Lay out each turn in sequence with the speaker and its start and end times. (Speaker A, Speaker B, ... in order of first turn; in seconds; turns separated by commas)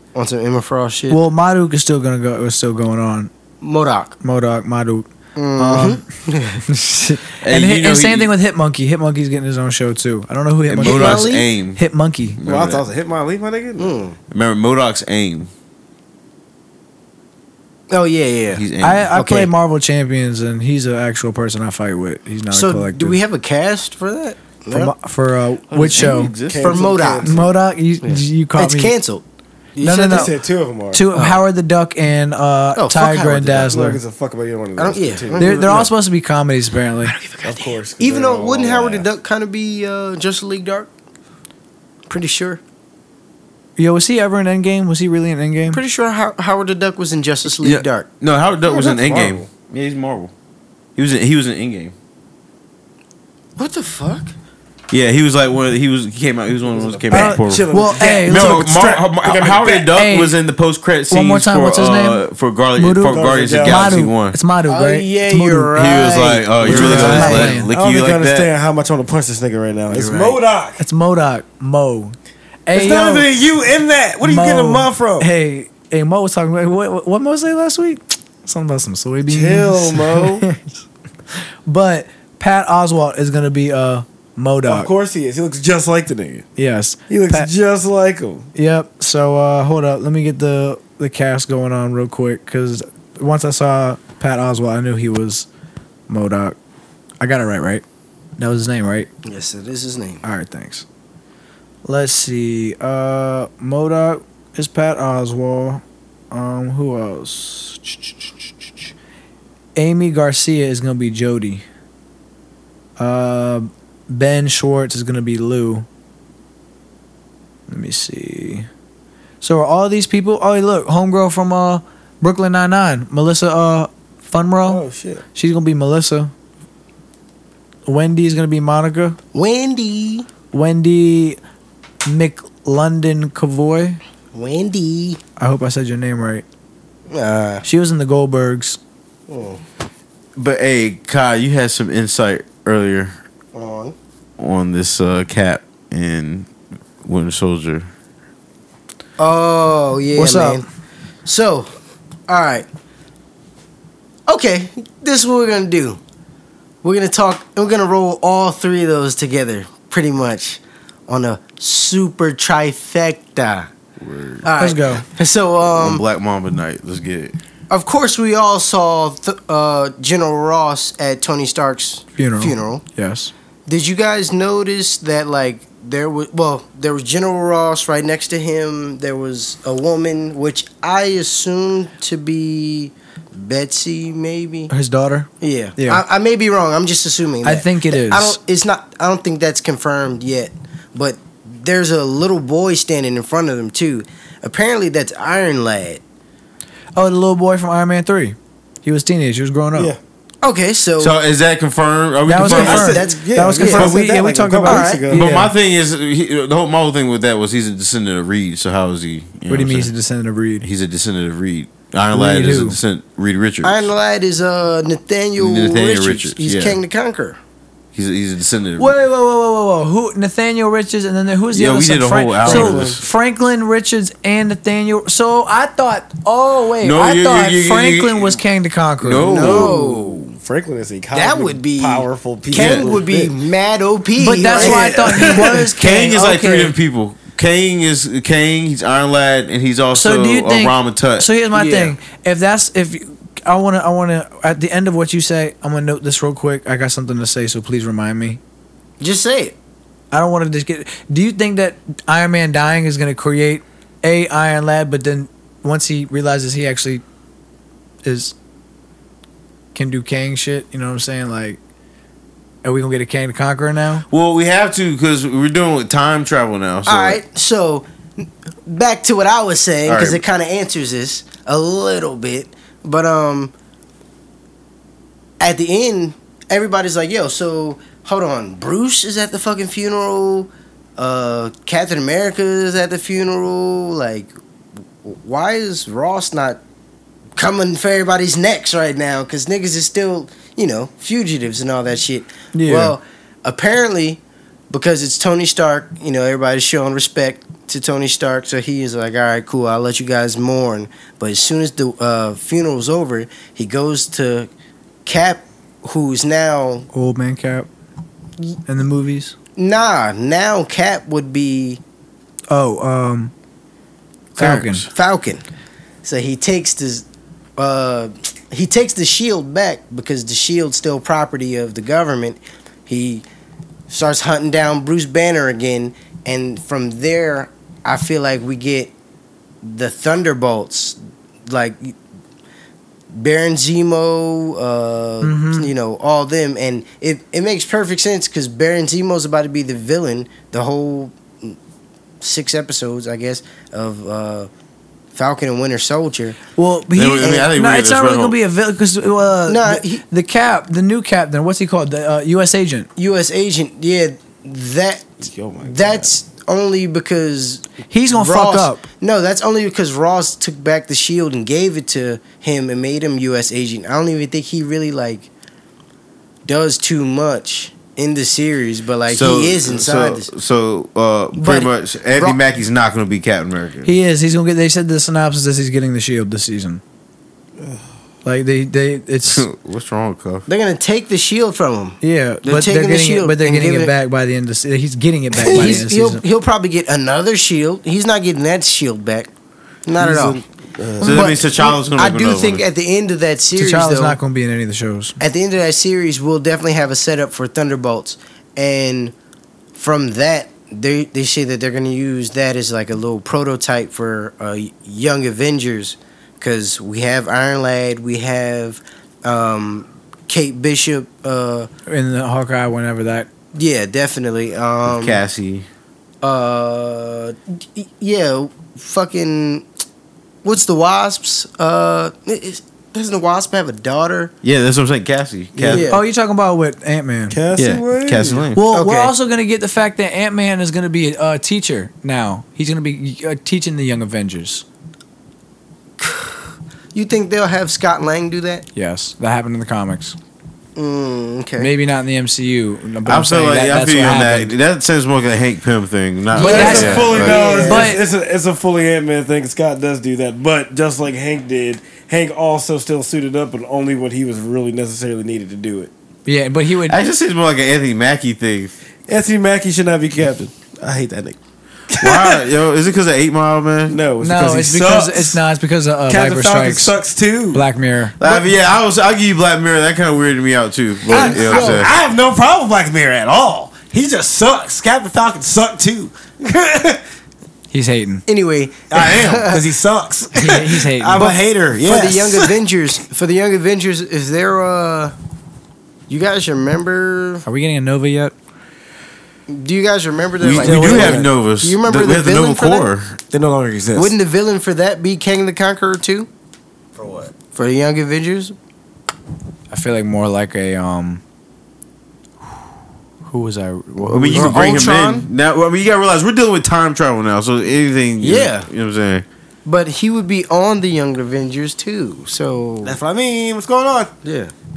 Speaker A: 0.1-1.2, Speaker B: 1.1-3.3, Speaker A: 3.6-4.2, Speaker B: 4.2-6.0, Speaker A: 5.3-6.6, Speaker B: 6.7-12.4, Speaker C: 7.4-8.3, Speaker C: 10.7-11.8, Speaker A: 10.8-11.5, Speaker C: 12.4-12.8, Speaker D: 12.4-14.0, Speaker A: 13.8-14.2, Speaker C: 14.3-15.5, Speaker A: 17.9-18.6, Speaker C: 18.5-19.1, Speaker B: 18.8-23.2, Speaker A: 19.1-19.5, Speaker A: 22.5-24.9, Speaker B: 24.7-26.3, Speaker C: 25.7-26.9, Speaker D: 26.4-27.5, Speaker A: 26.5-27.4, Speaker B: 27.2-28.9, Speaker A: 28.0-29.2, Speaker A: 29.8-30.3, Speaker B: 29.8-30.3, Speaker D: 30.1-31.1, Speaker B: 30.9-34.0, Speaker A: 31.1-31.4, Speaker A: 32.7-33.9, Speaker D: 33.6-35.9, Speaker A: 34.8-35.9, Speaker B: 35.4-37.1, Speaker A: 37.0-40.9, Speaker D: 37.4-39.1, Speaker A: 42.1-42.6, Speaker B: 43.8-45.8, Speaker A: 45.7-48.1, Speaker C: 47.6-50.3, Speaker D: 48.7-49.4, Speaker C: 51.0-51.9, Speaker A: 53.6-54.3, Speaker C: 54.9-64.4, Speaker D: 56.7-59.9, Speaker B: 57.1-58.7, Speaker B: 59.7-60.4, Speaker B: 61.1-62.2, Speaker B: 62.8-65.8, Speaker D: 63.0-64.0, Speaker A: 64.7-67.5, Speaker C: 65.7-68.5, Speaker D: 66.6-70.8, Speaker B: 66.6-67.7, Speaker A: 69.9-70.4, Speaker B: 70.8-73.3, Speaker D: 72.7-75.3, Speaker B: 74.2-80.7, Speaker D: 79.3-80.5, Speaker B: 81.3-84.9, Speaker D: 84.6-86.5, Speaker B: 86.5-87.5, Speaker D: 87.1-88.5, Speaker B: 88.5-95.5, Speaker B: 96.1-96.5, Speaker B: 97.2-97.8, Speaker B: 98.4-99.1, Speaker A: 99.2-100.2, Speaker B: 100.2-100.8, Speaker B: 101.8-108.3, Speaker B: 109.8-111.6, Speaker B: 113.0-115.8, Speaker B: 117.7-118.7, Speaker B: 119.4-124.8, Speaker D: 124.6-125.2, Speaker B: 125.3-126.3, Speaker B: 127.8-129.2, Speaker A: 129.3-130.3, Speaker B: 130.5-131.4, Speaker B: 132.0-134.0, Speaker A: 134.3-135.2, Speaker B: 135.4-136.4, Speaker A: 137.1-137.6, Speaker B: 137.6-138.8, Speaker A: 139.3-139.6, Speaker C: 140.3-143.2, Speaker A: 143.5-143.9, Speaker C: 144.4-146.5, Speaker C: 147.0-147.9, Speaker A: 149.2-150.6, Speaker B: 150.1-150.6, Speaker A: 151.2-151.7, Speaker A: 152.3-152.7, Speaker A: 154.3-156.0, Speaker A: 156.8-163.7, Speaker C: 164.0-164.4, Speaker A: 164.4-166.0, Speaker B: 164.6-165.0, Speaker C: 165.7-167.3, Speaker A: 167.7-172.8, Speaker B: 172.2-173.3, Speaker A: 173.7-184.7, Speaker B: 184.7-186.0, Speaker A: 185.4-196.0, Speaker B: 187.4-188.4, Speaker B: 196.9-199.9, Speaker A: 200.4-201.2, Speaker C: 201.0-203.0, Speaker B: 202.2-205.5, Speaker A: 202.4-203.9, Speaker D: 202.4-205.3, Speaker A: 204.6-205.1, Speaker C: 205.1-209.9, Speaker B: 209.5-210.7, Speaker C: 210.6-213.9, Speaker B: 212.1-212.8, Speaker A: 213.6-217.4, Speaker C: 215.4-216.8, Speaker C: 217.9-218.9, Speaker B: 218.8-229.6, Speaker C: 221.5-223.0, Speaker A: 222.5-222.9, Speaker C: 226.8-228.4, Speaker C: 229.0-230.3, Speaker A: 229.2-230.2, Speaker D: 229.4-229.8, Speaker D: 230.4-233.3, Speaker A: 231.1-235.6, Speaker C: 232.5-232.9, Speaker B: 234.2-236.7, Speaker D: 234.5-235.7, Speaker C: 235.7-241.3, Speaker B: 239.9-248.4, Speaker A: 241.5-241.9, Speaker A: 249.0-249.5, Speaker B: 250.1-257.0, Speaker B: 258.0-258.3, Speaker B: 259.7-261.6, Speaker B: 262.6-264.0, Speaker C: 264.1-267.2, Speaker A: 266.9-273.5, Speaker C: 269.9-270.2, Speaker A: 275.4-284.3, Speaker A: 285.0-286.6, Speaker A: 287.4-304.5, Speaker B: 292.5-292.9, Speaker A: 305.1-306.9, Speaker B: 306.9-307.7, Speaker B: 308.6-309.3, Speaker A: 309.6-311.8, Speaker B: 312.5-313.3, Speaker C: 314.4-314.9, Speaker B: 314.4-314.9, Speaker A: 314.8-315.4, Speaker A: 316.0-317.0, Speaker A: 317.6-323.2, Speaker A: 323.9-328.9, Speaker A: 329.6-331.9, Speaker A: 333.1-341.6, Speaker B: 335.2-335.7, Speaker A: 342.2-344.5, Speaker A: 345.1-346.4, Speaker B: 346.6-352.9, Speaker C: 346.9-348.4, Speaker A: 347.2-347.4, Speaker A: 349.5-350.0, Speaker A: 353.0-365.3, Speaker B: 357.9-358.8, Speaker A: 366.4-370.3, Speaker C: 369.1-373.9, Speaker A: 371.4-372.4, Speaker B: 373.8-376.8, Speaker B: 378.2-379.4, Speaker C: 379.3-380.4, Speaker A: 380.5-383.9, Speaker B: 382.0-386.2, Speaker A: 385.4-389.3, Speaker D: 385.5-385.8, Speaker A: 389.8-390.4, Speaker D: 390.0-391.3, Speaker C: 391.0-392.6, Speaker A: 391.0-394.2, Speaker B: 393.6-395.2, Speaker A: 395.2-399.1, Speaker A: 399.7-411.7, Speaker B: 411.9-413.3, Speaker A: 413.5-415.2, Speaker C: 414.9-415.7, Speaker A: 416.2-419.6, Speaker A: 420.4-424.3, Speaker C: 424.4-425.9, Speaker D: 425.6-425.9, Speaker A: 425.6-426.0, Speaker B: 425.8-427.4, Speaker D: 427.3-428.5, Speaker C: 427.6-428.6, Speaker B: 428.5-434.6, Speaker A: 428.7-429.1, Speaker A: 436.0-436.4, Speaker A: 436.9-438.6, Speaker B: 438.7-440.1, Speaker A: 440.8-441.7, Speaker B: 441.6-444.5, Speaker C: 443.0-447.4, Speaker A: 446.4-448.0, Speaker B: 446.4-448.0, Speaker D: 446.4-455.9, Speaker B: 456.2-457.0, Speaker C: 456.8-458.7, Speaker D: 459.1-461.4, Speaker D: 461.9-462.4, Speaker C: 461.9-464.0, Speaker D: 463.9-465.4, Speaker B: 464.2-466.9, Speaker D: 466.1-467.6, Speaker B: 467.5-468.1, Speaker C: 468.2-471.9, Speaker D: 471.1-477.0, Speaker A: 471.1-471.9, Speaker B: 477.7-478.2, Speaker A: 478.3-479.6, Speaker D: 478.9-482.5, Speaker B: 480.3-481.3, Speaker A: 481.1-485.1, Speaker A: 486.1-487.4, Speaker B: 487.4-488.3, Speaker A: 489.5-492.9, Speaker C: 490.4-493.2, Speaker D: 490.5-491.3, Speaker D: 493.3-494.1, Speaker A: 493.9-496.3, Speaker D: 496.9-497.3, Speaker A: 497.5-498.5, Speaker B: 499.7-501.2, Speaker B: 503.2-504.9, Speaker C: 504.0-509.2, Speaker A: 504.3-505.3, Speaker A: 508.2-508.7, Speaker A: 509.6-513.0, Speaker D: 512.8-514.1, Speaker A: 514.2-514.5